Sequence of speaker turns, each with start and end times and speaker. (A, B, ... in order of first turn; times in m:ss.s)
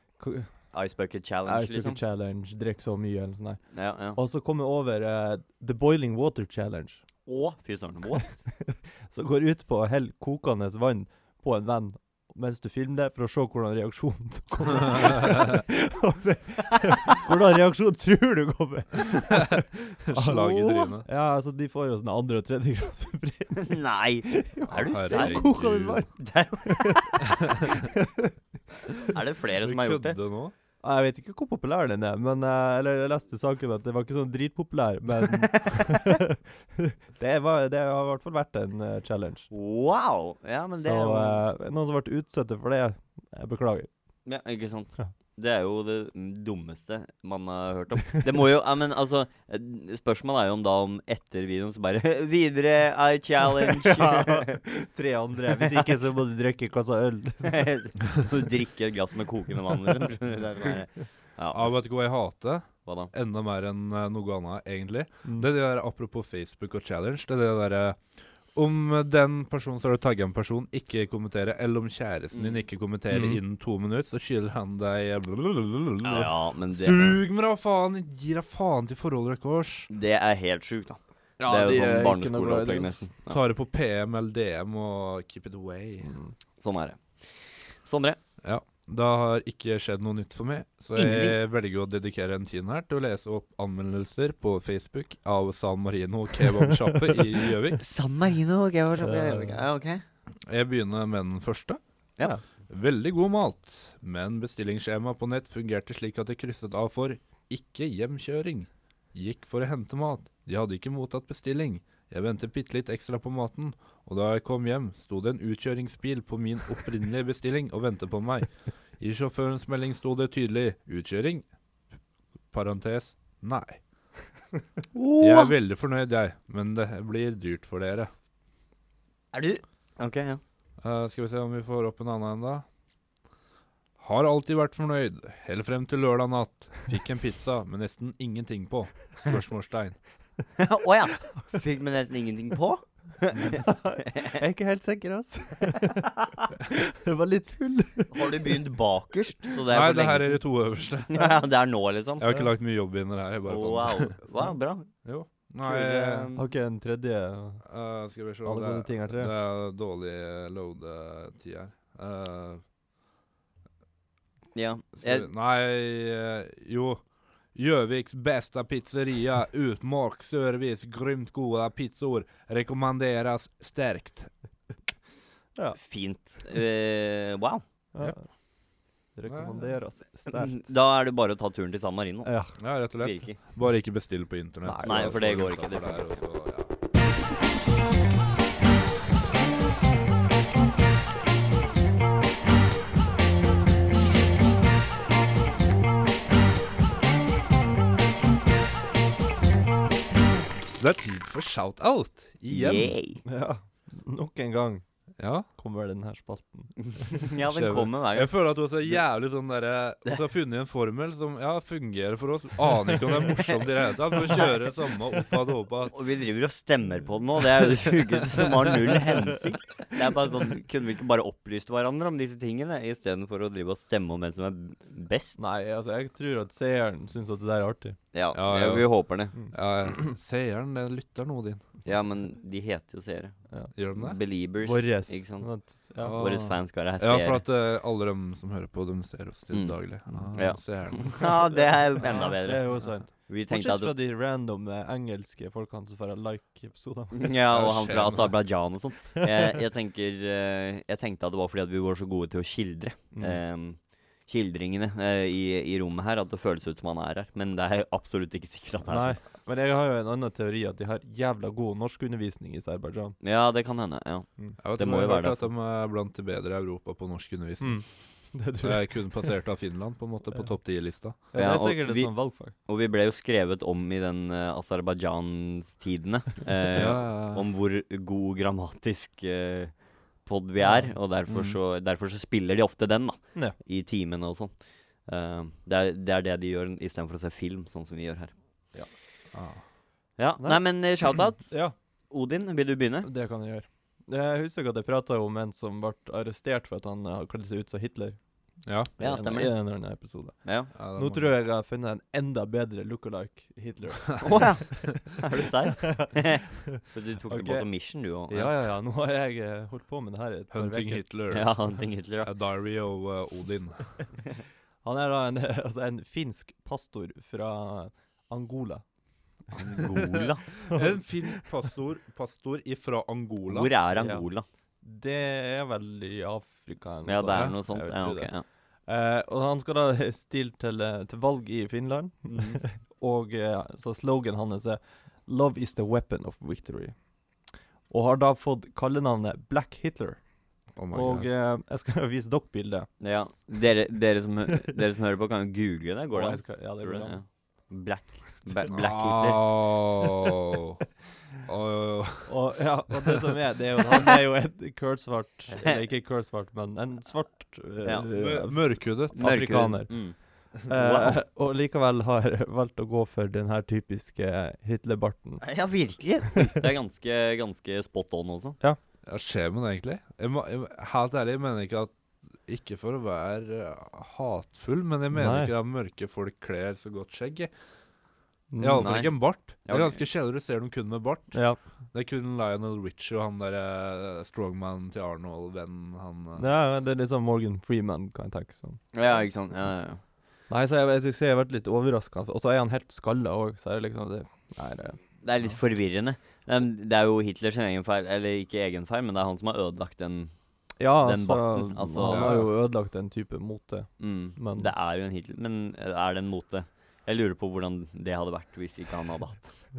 0:00.2-0:00.5 A
0:00.7-0:02.0 B
0:01.4-0:03.6 A
0:03.7-0:04.2 B
0:04.1-0:07.0 A
0:07.3-0:08.4 B
0:08.6-0:28.3 A
0:15.0-0:15.4 C
0:19.5-0:21.1 C
0:23.6-0:25.5 B
0:24.7-0:26.0 C
0:26.2-0:27.3 B
0:27.3-0:27.9 C
0:29.0-0:30.2 B
0:29.6-0:30.5 C
0:30.8-0:39.5 A
0:35.3-0:36.0 B
0:39.5-0:41.4 B
0:40.8-0:43.9 A
0:44.2-0:54.6 B
0:53.7-0:57.6 A
0:55.5-0:56.0 B
0:57.4-1:01.8 B
1:01.5-1:19.9 C
1:02.9-1:03.1 B
1:12.3-1:12.6 B
1:16.0-1:17.2 B
1:19.9-1:23.4 B
1:21.4-1:23.0 A
1:23.3-1:26.1 C
1:26.0-1:26.3 A
1:26.6-1:28.2 B
1:28.4-1:37.8 C
1:31.0-1:31.4 B
1:37.8-1:40.0 B
1:39.0-1:39.6 A
1:40.5-1:41.8 C
1:42.7-2:01.5 C
2:02.5-2:03.8 C
2:04.9-2:05.5 B
2:05.2-2:08.1 C
2:09.3-2:10.4 B
2:10.8-2:12.6 C
2:14.0-2:20.0 C
2:20.6-2:22.8 B
2:23.3-2:28.6 A
2:23.5-2:24.4 B
2:28.1-2:30.4 B
2:29.7-2:31.3 C
2:31.1-2:32.3 B
2:32.2-2:34.2 C
2:33.5-2:34.9 B
2:35.0-2:36.3 C
2:35.6-2:36.5 B
2:36.4-2:37.6 A
2:37.6-2:42.6 C
2:38.4-2:39.3 A
2:44.6-2:45.3 B
2:45.0-2:47.0 C
2:47.5-2:54.3 C
2:55.8-2:57.6 B
2:57.9-2:58.2 A
2:59.2-3:00.6 A
2:59.3-2:59.6 C
3:00.3-3:02.3 B
3:02.2-3:02.5 A
3:02.6-3:06.7 C
3:03.0-3:03.4 B
3:04.6-3:05.1 A
3:04.8-3:06.1 B
3:20.8-3:23.0 C
3:22.5-3:23.2 B
3:23.2-3:24.8 A
3:25.2-3:25.5 C
3:25.6-3:27.3 A
3:26.9-3:28.3 B
3:27.5-3:36.0 C
3:35.9-3:45.4 B
3:45.4-3:48.0 A
3:48.1-3:49.4 B
3:48.3-3:49.0 C
3:49.5-3:51.6 C
3:51.8-3:53.4 B
3:53.8-3:54.2 C
3:53.9-3:55.5 B
3:54.6-3:56.2 A
3:56.0-4:01.3 C
3:56.1-3:57.4 B
3:59.5-3:59.8 B
4:00.4-4:04.0 B
4:01.2-4:07.3 A
4:07.1-4:19.2 B
4:07.5-4:08.4 C
4:13.1-4:13.4 A
4:18.9-4:23.2 A
4:23.2-4:25.5 B
4:24.6-4:27.9 C
4:27.6-4:29.4 A
4:28.6-4:31.2 C
4:31.3-4:32.6 A
4:31.3-4:44.5 B
4:36.7-4:37.4 C
4:40.6-4:41.0 A
4:41.3-4:41.6 C
4:45.1-4:48.3 B
4:49.3-4:49.6 C
4:50.2-4:51.6 B
4:50.4-4:50.7 A
4:51.2-4:51.7 A
4:52.1-4:53.1 B
4:53.0-4:58.2 A
4:58.6-4:58.9 C
4:59.0-5:04.6 A
4:59.0-4:59.6 B
5:00.4-5:00.7 B
5:00.8-5:01.3 C
5:04.2-5:08.5 B
5:05.8-5:07.7 A
5:08.3-5:11.0 A
5:10.5-5:11.6 C
5:11.3-5:12.3 B
5:12.2-5:14.0 C
5:14.8-5:18.8 A
5:19.5-5:20.6 B
5:20.6-5:23.7 C
5:20.7-5:21.3 A
5:23.5-5:24.4 B
5:23.9-5:24.3 A
5:24.8-5:28.3 A
5:27.1-5:28.4 B
5:28.9-5:37.0 A
5:32.2-5:32.6 C
5:37.9-5:40.2 A
5:40.8-5:41.3 C
5:40.9-5:42.9 A
5:43.0-5:49.6 B
5:46.1-5:47.2 A
5:48.7-5:52.3 C
5:52.3-6:00.1 A
5:55.5-5:55.8 B
5:58.1-5:59.2 C
5:59.2-6:01.2 B
6:00.7-6:05.4 A
6:05.4-6:08.6 B
6:09.0-6:11.9 C
6:12.5-6:17.5 C
6:15.1-6:15.5 A
6:18.5-6:19.0 A
6:18.6-6:26.5 C
6:18.8-6:20.0 B
6:21.3-6:21.6 A
6:26.4-6:28.9 A
6:28.9-6:30.0 B
6:30.5-6:35.0 A
6:35.2-6:40.3 B
6:40.8-6:44.7 A
6:41.0-6:42.4 B
6:42.1-6:42.5 C
6:44.0-6:49.6 B